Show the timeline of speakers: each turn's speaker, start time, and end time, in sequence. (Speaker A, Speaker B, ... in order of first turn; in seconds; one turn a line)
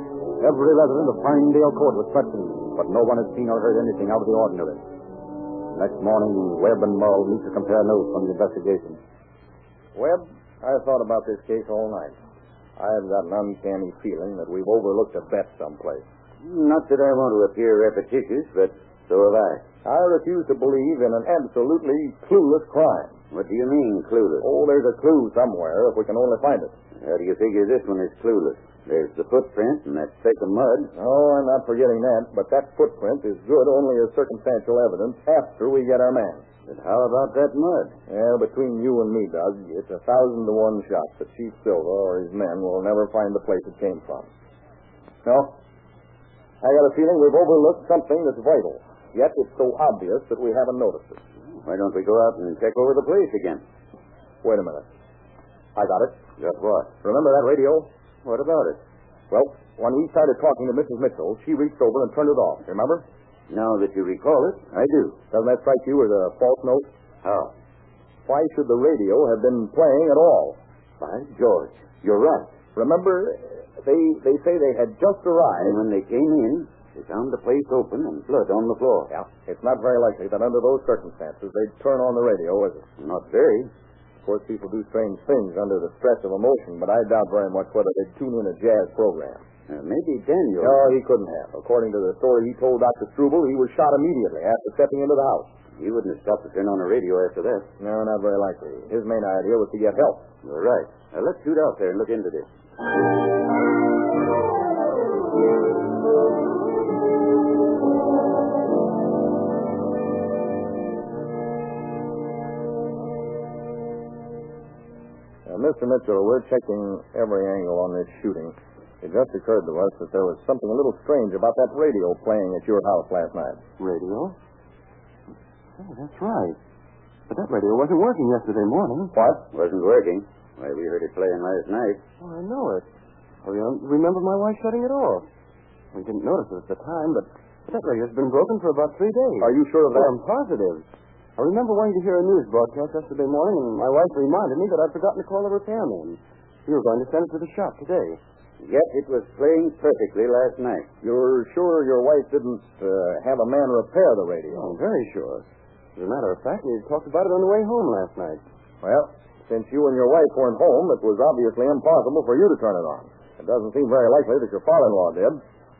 Speaker A: 0.4-4.8
Speaker A: 5.7-9.0
Speaker B: 9.9-12.2
Speaker B: 12.8-16.1
Speaker C: 16.4-19.6
Speaker B: 19.9-23.1
Speaker C: 23.3-24.5
Speaker B: 24.4-26.7
Speaker C: 27.0-30.9
Speaker B: 31.0-36.4
Speaker C: 36.7-38.0
Speaker B: 38.1-44.3
Speaker B: 45.2-45.6
Speaker B: 46.6-51.2
Speaker C: 51.6-53.6
Speaker B: 54.4-54.9
Speaker B: 55.8-56.2
Speaker C: 56.4-56.9
Speaker B: 57.0-57.9
Speaker C: 58.2-58.8
Speaker B: 59.3-63.0
Speaker C: 63.5-65.2
Speaker B: 65.3-66.9
Speaker C: 67.2-67.5
Speaker B: 68.3-70.6
Speaker C: 71.0-72.5
Speaker B: 72.8-75.8
Speaker C: 75.6-79.1
Speaker B: 79.1-82.9
Speaker C: 83.0-83.7
Speaker B: 84.2-89.4
Speaker C: 89.7-90.9
Speaker B: 90.6-95.5
Speaker C: 95.8-97.7
Speaker B: 97.8-100.3
Speaker C: 100.4-102.5
Speaker B: 115.5-123.6
Speaker D: 123.8-124.4
Speaker D: 125.8-126.6
Speaker D: 127.3-129.2
Speaker B: 129.2-129.4
Speaker C: 129.5-132.0
Speaker D: 132.2-132.9
Speaker D: 133.4-135.3
Speaker D: 135.9-140.9
Speaker B: 139.4-140.2
Speaker D: 141.4-148.2
Speaker C: 148.6-150.9
Speaker B: 151.0-154.8
Speaker D: 154.5-155.4
Speaker D: 156.0-158.4
Speaker B: 158.8-165.4